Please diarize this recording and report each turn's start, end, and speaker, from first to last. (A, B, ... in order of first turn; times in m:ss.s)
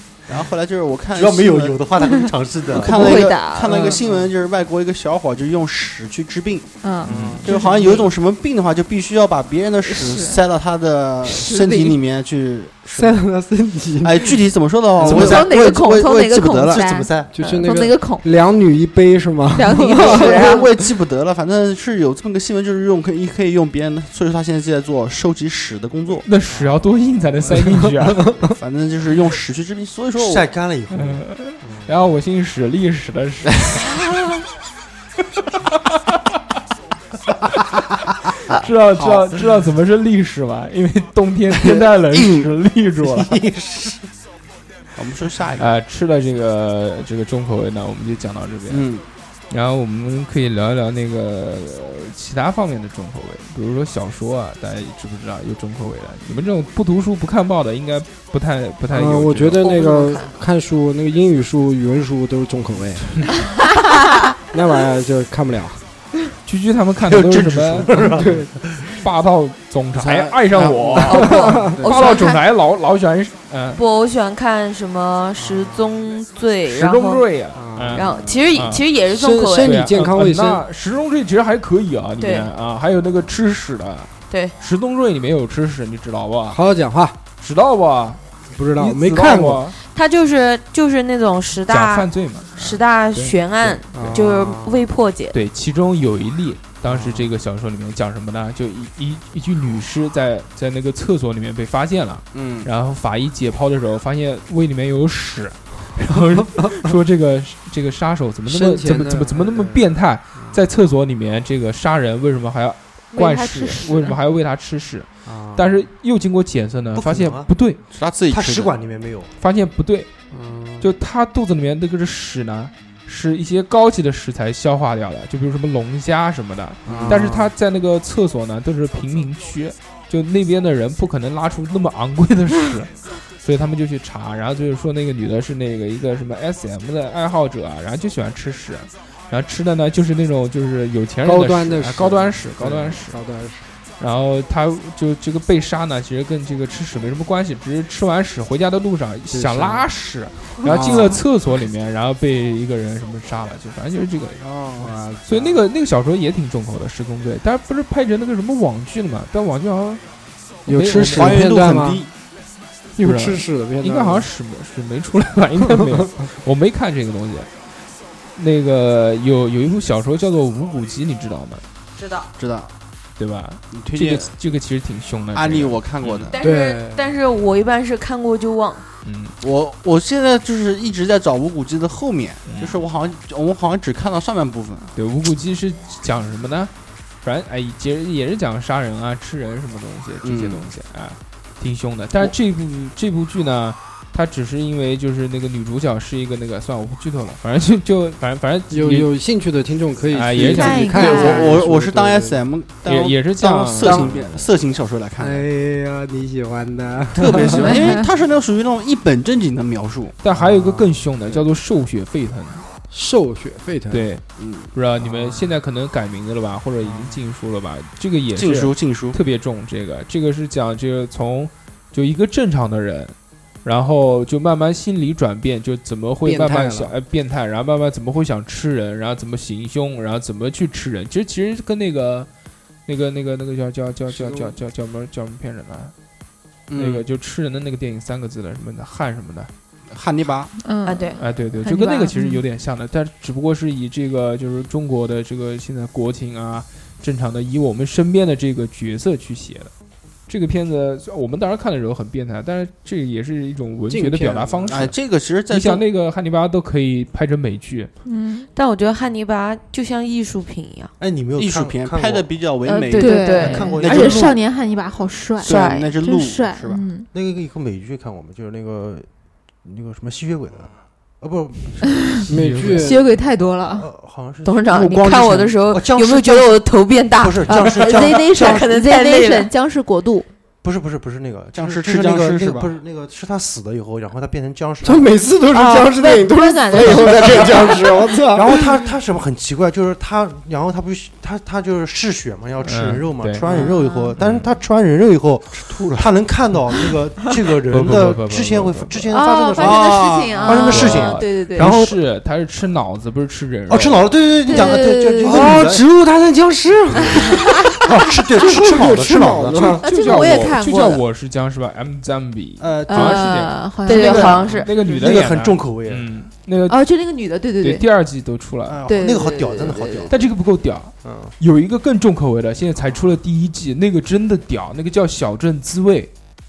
0:00.3-0:01.9 A
0:01.1-0:03.3 B
0:02.0-0:02.2 C
0:02.7-0:06.7 A
0:02.8-0:04.0 C
0:03.7-0:04.0 D
0:06.8-0:08.0 C
0:07.0-0:07.4 B
0:07.1-0:07.4 E
0:07.1-0:07.4 D
0:07.4-0:13.2 A
0:09.8-0:10.4 C
0:11.2-0:12.0 C
0:12.9-0:14.4 D
0:14.0-0:17.2 A
0:15.0-0:15.5 D
0:15.0-0:15.8 B
0:15.1-0:18.3 C
0:16.7-0:17.3 B
0:17.3-0:20.4 D
0:19.5-0:20.7 C
0:20.0-0:26.3 A
0:26.2-0:28.3 E
0:27.5-0:28.5 D
0:28.5-0:30.5 A
0:30.2-0:31.2 B
0:30.9-0:34.0 E
0:38.5-0:43.4 E
0:43.0-0:44.1 B
0:45.0-0:45.7 A
0:45.6-0:48.9 E
0:48.7-0:49.1 A
0:49.5-0:59.6 E
0:58.9-1:03.1 D
0:59.6-1:00.3 F
1:04.5-1:05.8 D
1:06.4-1:08.3 E
1:07.0-1:09.0 B
1:07.9-1:08.5 D
1:08.9-1:13.8 E
1:10.6-1:11.8 D
1:11.0-1:12.4 F
1:13.7-1:17.2 F
1:15.4-1:15.9 D
1:16.7-1:18.8 E
1:17.5-1:18.2 D
1:17.9-1:19.8 F
1:19.1-1:20.6 D
1:19.6-1:26.6 E
1:22.2-1:22.5 F
1:26.5-1:27.2 D
1:27.4-1:28.2 E
1:28.5-1:29.7 D
1:28.8-1:29.8 E
1:29.9-1:35.4 F
1:31.7-1:34.1 E
1:33.9-1:34.9 D
1:35.3-1:57.8 E
1:36.8-1:37.3 D
1:42.3-1:42.7 A
1:48.4-1:49.8 D
1:53.1-1:54.2 C
1:55.2-1:55.8 D
1:56.9-1:57.5 B
1:57.9-1:58.7 A
1:58.3-1:59.3 B
1:59.4-2:00.1 E
2:00.3-2:00.9 D
2:00.8-2:23.2 E
2:06.8-2:07.4 B
2:06.8-2:07.5 D
2:21.2-2:23.6 D
2:24.0-2:34.4 E
2:29.3-2:29.9 D
2:30.6-2:31.2 D
2:34.4-2:34.9 A
2:34.8-2:35.6 D
2:35.2-2:40.0 E
2:40.6-2:41.5 E
2:40.6-2:42.0 D
2:41.1-2:42.1 A
2:43.0-2:44.3 D
2:43.0-2:47.5 E
2:45.7-2:46.0 D
2:48.4-2:51.6 E
2:52.0-2:52.3 F
2:52.4-2:52.7 A
2:53.2-2:56.3 E
2:53.7-2:54.3 A
2:55.3-2:56.4 A
2:56.3-2:58.8 F
2:56.4-2:57.0 D
2:59.0-2:59.3 E
2:59.4-3:04.9 A
3:02.5-3:02.8 E
3:05.0-3:06.7 E
3:07.2-3:19.1 E
3:10.2-3:10.6 A
3:18.7-3:22.4 D
3:20.1-3:21.1 E
3:20.5-3:21.5 C
3:20.9-3:25.4 A
3:22.8-3:24.3 E
3:23.8-3:24.3 D
3:25.2-3:27.8 D
3:27.1-3:30.2 A
3:27.6-3:28.0 C
3:30.2-3:32.6 E
3:30.3-3:31.4 D
3:32.9-3:34.1 D
3:33.9-3:52.3 E
3:34.4-3:34.7 A
3:35.0-3:35.5 D
3:36.8-3:37.2 D
3:38.3-3:39.2 A
3:46.2-3:46.9 D
3:52.8-3:55.9 E
3:54.1-3:54.5 D
3:56.7-3:57.0 A
3:56.8-3:59.5 E
3:59.9-4:00.5 A
4:00.6-4:02.4 C
4:00.8-4:01.2 F
4:01.2-4:09.7 E
4:10.3-4:15.0 E
4:13.9-4:14.8 D
4:14.7-4:15.8 A
4:15.5-4:17.9 E
4:18.0-4:18.5 C
4:18.5-4:20.9 F
4:21.0-4:22.3 B
4:21.4-4:24.4 A
4:22.7-4:27.1 C
4:22.9-4:23.8 F
4:23.3-4:24.4 B
4:25.4-4:26.9 A
4:25.5-4:25.9 F
4:27.1-4:29.1 B
4:29.6-4:31.9 B
4:31.9-4:32.2 C
4:32.3-4:33.0 D
4:32.3-4:32.8 E
4:32.7-4:33.9 C
4:33.6-4:36.6 B
4:34.4-4:39.5 F
4:37.2-4:38.7 B
4:37.5-4:40.3 C
4:40.6-4:45.1 B
4:41.5-4:42.7 A
4:44.8-4:48.6 D
4:45.5-4:47.8 C
4:46.8-5:01.9 B
4:52.6-4:53.4 E
4:53.4-4:53.7 D
4:53.4-4:54.2 C
4:54.2-4:54.5 E
4:56.9-4:57.3 C
4:57.7-4:59.1 E
4:59.1-5:01.7 C
4:59.6-5:00.7 A
5:00.5-5:04.1 E
5:03.7-5:05.8 B
5:04.4-5:05.6 C
5:04.5-5:07.6 D
5:06.9-5:09.8 B
5:07.2-5:07.8 C
5:08.4-5:10.5 D
5:09.8-5:11.0 C
5:09.8-5:16.8 E
5:12.6-5:13.4 B
5:12.9-5:15.2 C
5:13.8-5:14.7 F
5:14.0-5:16.1 B
5:16.7-5:17.8 C
5:17.6-5:18.8 E
5:18.7-5:20.2 B
5:18.8-5:20.1 C
5:20.1-5:26.1 E
5:21.0-5:21.3 B